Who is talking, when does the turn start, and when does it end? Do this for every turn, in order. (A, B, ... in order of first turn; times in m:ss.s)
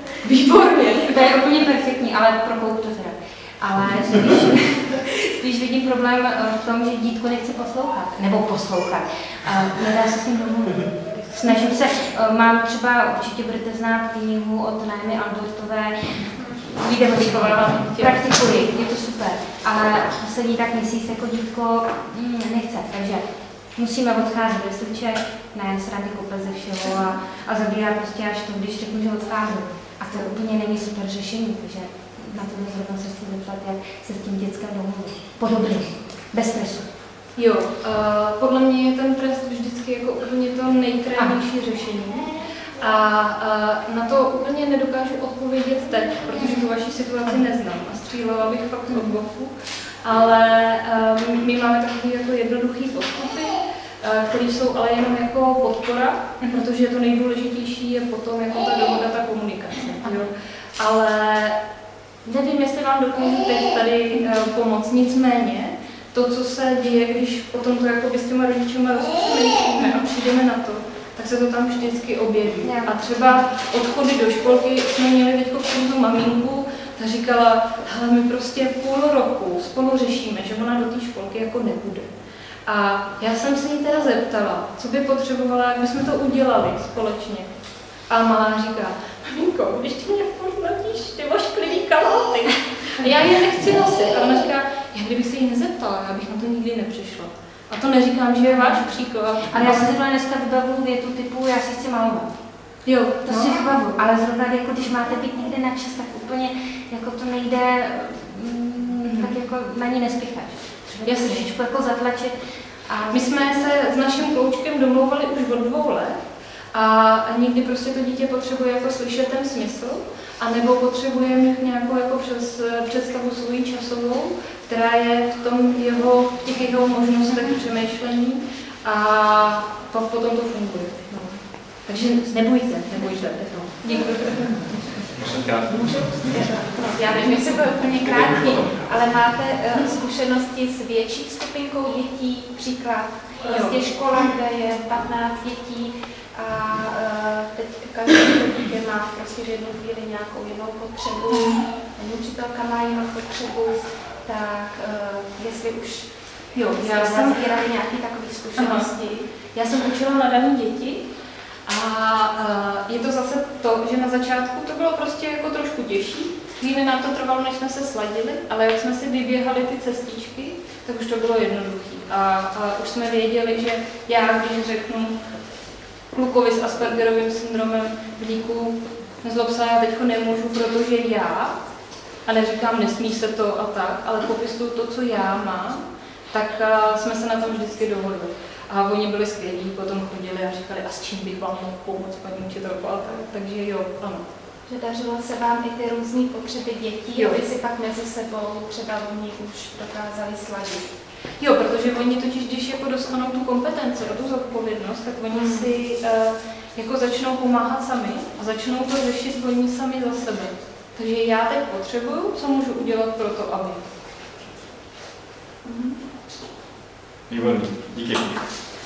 0:00.2-0:01.2 A
0:01.0-0:36.9 B
0:17.0-0:18.3 A
0:37.4-1:01.6 A
1:02.2-1:22.1 A
1:12.6-1:12.9 B
1:22.6-1:27.5 A
1:28.1-1:39.9 A
1:38.5-1:42.3 B
1:42.8-1:43.6 A
1:43.2-1:53.4 B
1:49.1-1:49.4 A
1:51.0-1:51.5 A
1:53.1-1:56.2 A
1:56.7-2:14.7 A
2:12.9-2:13.5 B
2:15.2-2:16.5 C
2:16.2-2:36.1 D
2:18.0-2:19.0 C
2:23.4-2:23.8 A
2:31.3-2:31.6 A
2:36.5-2:37.5 A
2:36.8-2:39.3 D
2:38.6-2:41.1 A
2:41.7-2:55.2 A
2:56.1-3:01.6 A
3:02.2-3:14.3 A
3:14.7-3:20.9 D
3:17.1-3:17.4 A
3:21.4-3:33.8 A
3:25.3-3:25.7 D
3:35.6-3:36.0 A
3:37.3-3:38.4 C